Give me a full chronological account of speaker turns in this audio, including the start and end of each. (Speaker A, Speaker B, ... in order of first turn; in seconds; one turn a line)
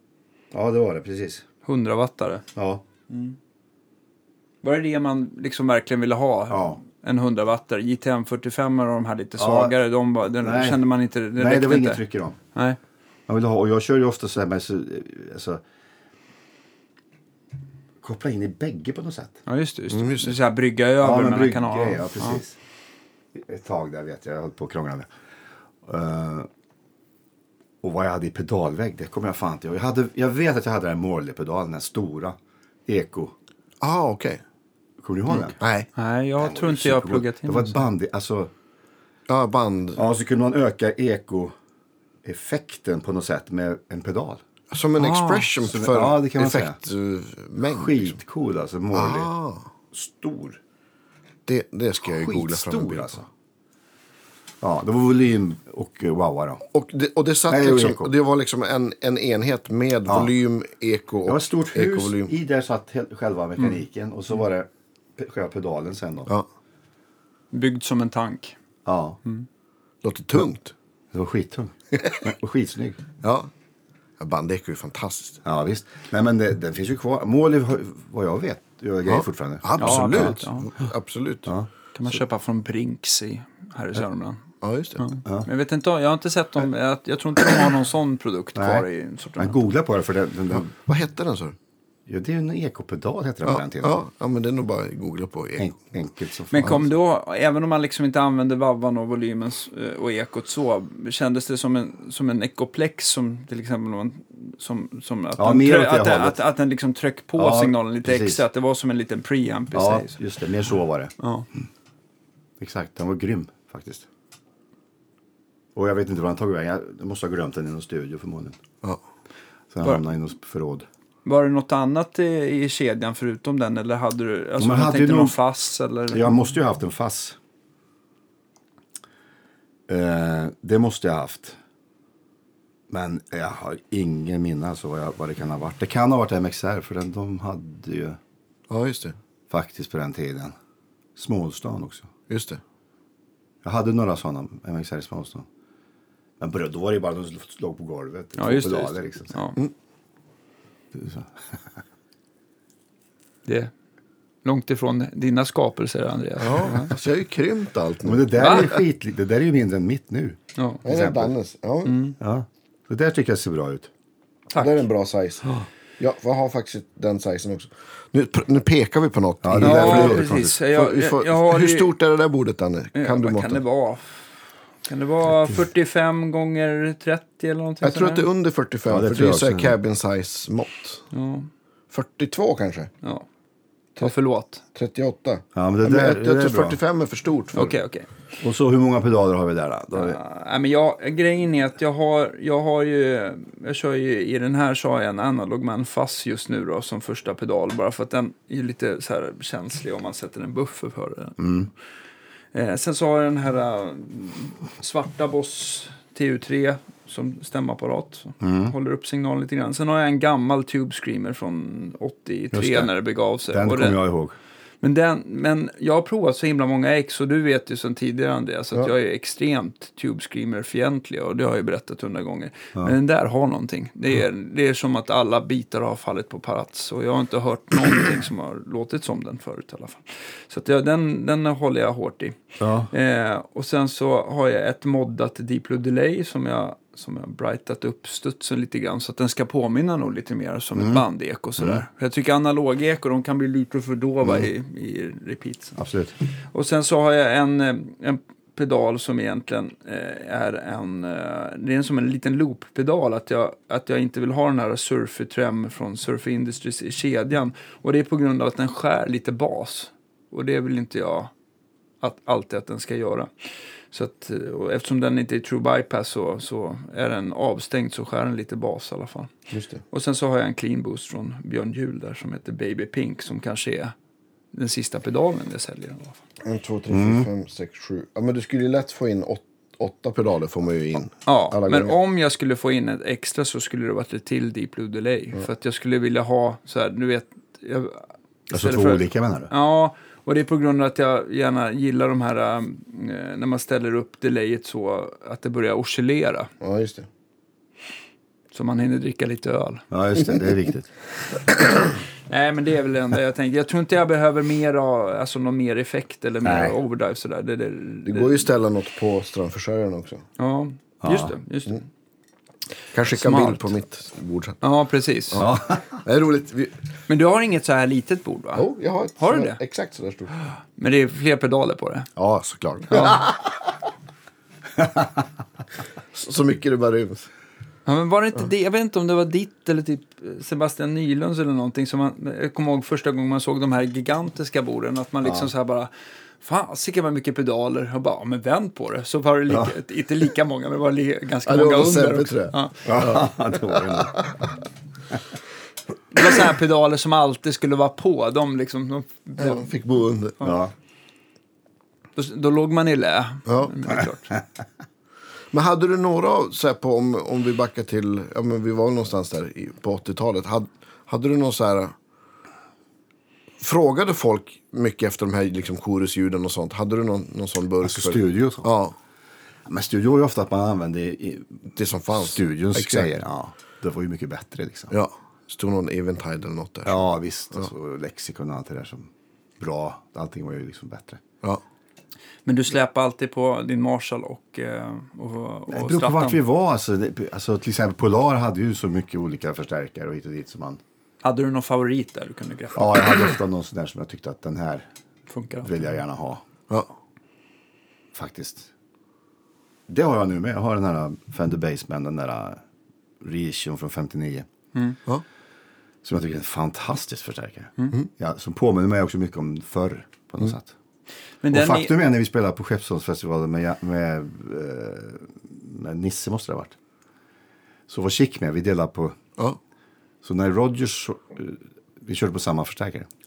Speaker A: 0.5-1.4
Speaker B: 1.6-2.4
Speaker A: 2.5-2.8
Speaker B: 3.1-3.4
Speaker B: 4.6-12.0
Speaker A: 6.5-6.8
Speaker A: 9.4-9.8
Speaker A: 10.3-12.4
Speaker A: 13.3-15.6
Speaker A: 18.0-19.4
Speaker B: 19.4-22.4
Speaker C: 19.9-20.3
Speaker A: 21.0-22.6
Speaker A: 23.3-25.1
Speaker A: 25.8-26.5
Speaker A: 27.8-33.3
Speaker C: 33.8-34.4
Speaker A: 35.0-35.6
Speaker B: 35.3-37.8
Speaker C: 35.6-35.9
Speaker A: 36.4-38.5
Speaker C: 39.3-40.0
Speaker A: 40.0-41.5
Speaker A: 42.2-44.4
Speaker C: 44.7-48.2
Speaker B: 45.0-45.5
Speaker A: 45.6-46.8
Speaker A: 47.6-49.3
Speaker C: 48.9-49.7
Speaker A: 49.9-50.6
Speaker C: 51.5-53.1
Speaker A: 52.1-53.3
Speaker A: 54.6-56.6
Speaker C: 56.7-62.3
Speaker A: 57.5-58.1
Speaker A: 61.2-66.3
Speaker B: 67.5-68.5
Speaker A: 68.8-69.2
Speaker C: 70.0-70.7
Speaker A: 71.1-73.0
Speaker C: 73.2-73.5
Speaker C: 74.2-75.4
Speaker A: 75.4-80.4
Speaker C: 79.1-81.5
Speaker B: 79.8-80.7
Speaker B: 81.9-84.4
Speaker C: 84.6-85.0
Speaker B: 85.0-89.6
Speaker A: 88.5-88.9
Speaker A: 89.4-90.7
Speaker C: 90.6-91.5
Speaker A: 92.1-94.0
Speaker C: 93.5-95.8
Speaker A: 95.6-96.9
Speaker B: 96.5-110.2
Speaker A: 105.4-106.4
Speaker A: 107.4-108.4
Speaker A: 109.7-111.1
Speaker B: 111.2-111.5
Speaker A: 112.6-114.1
Speaker A: 115.7-118.6
Speaker A: 119.7-120.8
Speaker B: 121.2-126.3
Speaker A: 124.6-125.4
Speaker A: 126.1-127.4
Speaker A: 129.9-131.6
Speaker A: 132.9-138.2
Speaker C: 138.7-139.2
Speaker A: 139.5-140.5
Speaker A: 141.2-142.1
Speaker C: 142.3-142.6
Speaker A: 143.6-145.4
Speaker A: 146.4-149.4
Speaker B: 148.4-149.6
Speaker A: 150.9-151.3
Speaker B: 153.4-153.7
Speaker B: 154.4-156.9
Speaker C: 156.4-158.7
Speaker A: 158.0-161.3
Speaker B: 158.3-158.8
Speaker B: 160.6-160.8
Speaker C: 160.8-162.0
Speaker B: 161.8-162.2
Speaker A: 162.2-163.9
Speaker B: 164.5-164.8
Speaker C: 164.6-173.6
Speaker A: 169.4-170.6
Speaker B: 169.6-171.9
Speaker B: 172.9-174.2
Speaker B: 174.8-178.3
Speaker C: 177.8-181.1
Speaker A: 178.9-179.8
Speaker B: 181.1-181.5
Speaker C: 181.9-182.9
Speaker B: 184.0-184.6
Speaker C: 184.7-187.8
Speaker A: 185.5-186.8
Speaker B: 187.5-188.1
Speaker A: 188.4-190.2
Speaker B: 189.9-201.4
Speaker A: 201.4-201.7
Speaker B: 202.5-214.0
Speaker A: 208.4-208.7
Speaker A: 212.5-212.9
Speaker A: 213.5-214.3
Speaker B: 214.8-245.8
Speaker A: 232.6-232.9
Speaker A: 240.7-241.0
Speaker A: 241.6-241.8
Speaker A: 245.8-246.1
Speaker B: 246.5-261.3
Speaker B: 262.0-263.3
Speaker B: 263.9-269.3
Speaker C: 269.5-269.8
Speaker B: 269.9-273.9
Speaker B: 274.5-276.2
Speaker C: 276.4-281.9
Speaker A: 276.9-277.3
Speaker B: 281.2-296.5
Speaker A: 288.5-289.5
Speaker C: 296.6-297.1
Speaker B: 298.5-299.8
Speaker A: 299.9-300.9
Speaker B: 302.3-308.5
Speaker A: 306.4-306.7
Speaker C: 308.0-310.2
Speaker B: 310.4-311.8
Speaker A: 311.0-311.3
Speaker C: 312.9-314.6
Speaker B: 313.1-313.7
Speaker B: 314.6-315.4
Speaker C: 315.3-316.7
Speaker A: 315.4-316.0
Speaker B: 317.1-318.7
Speaker C: 318.5-320.4
Speaker B: 319.2-319.6
Speaker B: 320.8-322.1
Speaker C: 322.1-323.4
Speaker B: 322.9-323.2
Speaker C: 326.1-327.3
Speaker B: 327.9-335.9
Speaker B: 336.4-342.9
Speaker C: 341.4-343.3
Speaker A: 342.8-344.3
Speaker C: 343.9-344.3
Speaker B: 346.1-349.7
Speaker C: 349.4-350.4
Speaker A: 350.4-350.7
Speaker B: 352.1-354.3
Speaker C: 353.4-353.7
Speaker C: 355.5-361.9
Speaker C: 363.6-368.9
Speaker A: 367.8-368.7
Speaker A: 369.6-374.9
Speaker C: 371.7-373.1
Speaker C: 374.9-377.0
Speaker A: 376.8-381.2
Speaker B: 382.4-386.4
Speaker A: 385.7-390.8
Speaker B: 391.2-393.3
Speaker A: 392.7-394.9
Speaker B: 395.3-395.7
Speaker A: 395.6-396.4
Speaker A: 398.1-398.7
Speaker A: 399.9-402.6
Speaker A: 403.2-404.5
Speaker A: 406.0-410.7
Speaker B: 411.4-411.9
Speaker A: 411.5-416.8
Speaker A: 417.9-419.2
Speaker A: 420.2-423.1